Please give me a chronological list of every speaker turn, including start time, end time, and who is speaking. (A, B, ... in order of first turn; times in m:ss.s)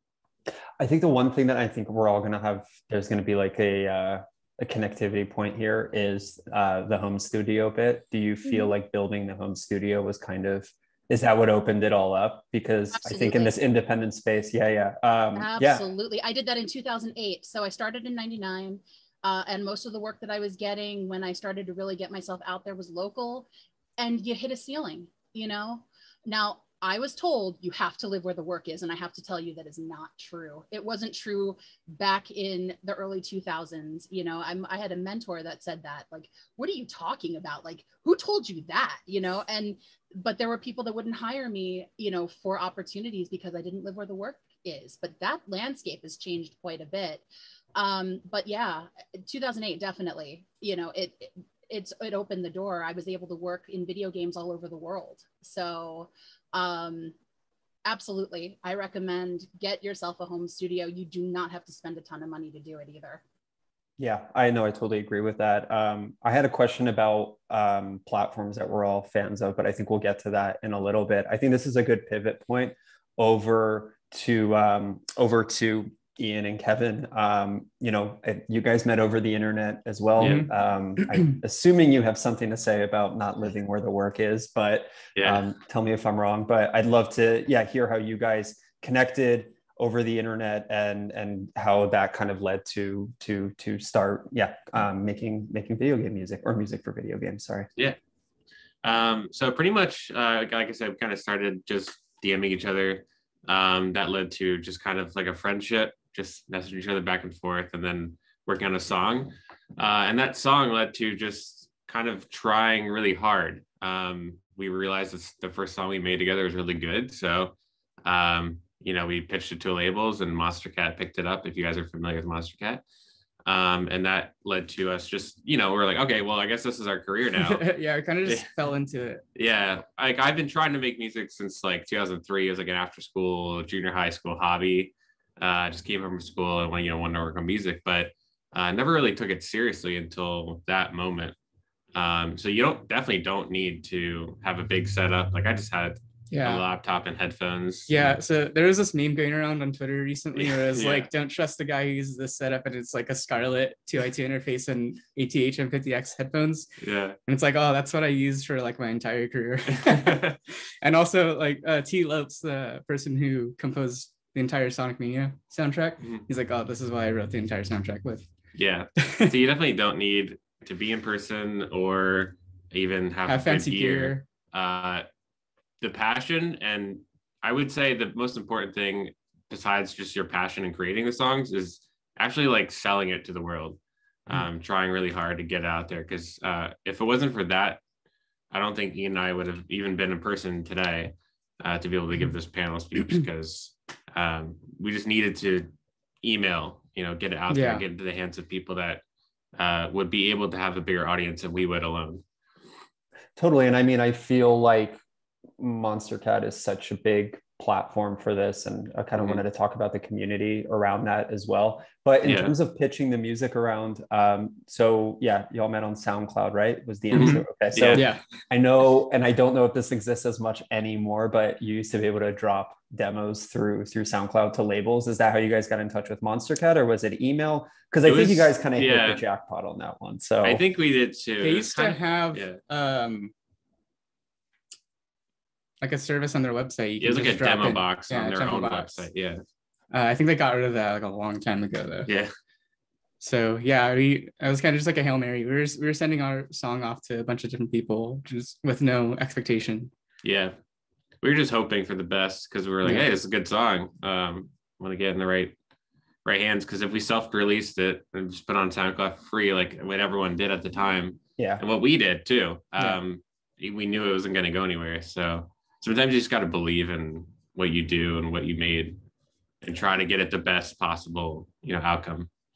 0:00.8-0:15.8 A
0:12.9-0:13.5 B
0:15.4-0:57.1 B
0:57.8-1:03.2 B
1:04.0-1:37.7 A
1:20.2-1:20.5 C
1:20.2-1:20.5 D
1:25.2-1:25.4 C
1:38.8-1:57.5 C
1:58.0-2:02.8 C
2:03.5-2:07.6 C
2:07.4-2:09.2 D
2:09.4-2:21.4 C
2:21.9-2:28.0 C
2:26.3-2:26.6 D
2:27.9-2:36.7 D
2:30.4-2:31.1 C
2:36.8-2:37.2 C
2:37.3-2:48.3 D
2:39.7-2:40.4 C
2:48.6-2:55.0 C
2:49.0-2:49.3 D
2:53.3-2:54.2 D
2:55.8-3:07.8 C
3:08.5-3:15.7 C
3:16.2-3:19.0 C
3:17.5-3:17.8 D
3:19.6-3:22.2 C
3:23.4-3:25.0 A
3:25.6-3:50.6 A
3:32.2-3:32.6 C
3:37.1-3:38.2 D
3:37.1-3:38.0 C
3:48.1-3:49.2 C
3:50.4-3:52.6 C
3:51.4-3:53.3 D
3:55.8-3:59.1 D
3:57.0-3:59.4 C
3:59.9-4:02.1 D
4:02.1-4:02.3 C
4:03.2-4:09.9 D
4:10.2-4:10.6 C
4:11.2-4:15.6 C
4:16.2-4:29.0 C
4:21.4-4:21.6 A
4:29.6-4:32.3 C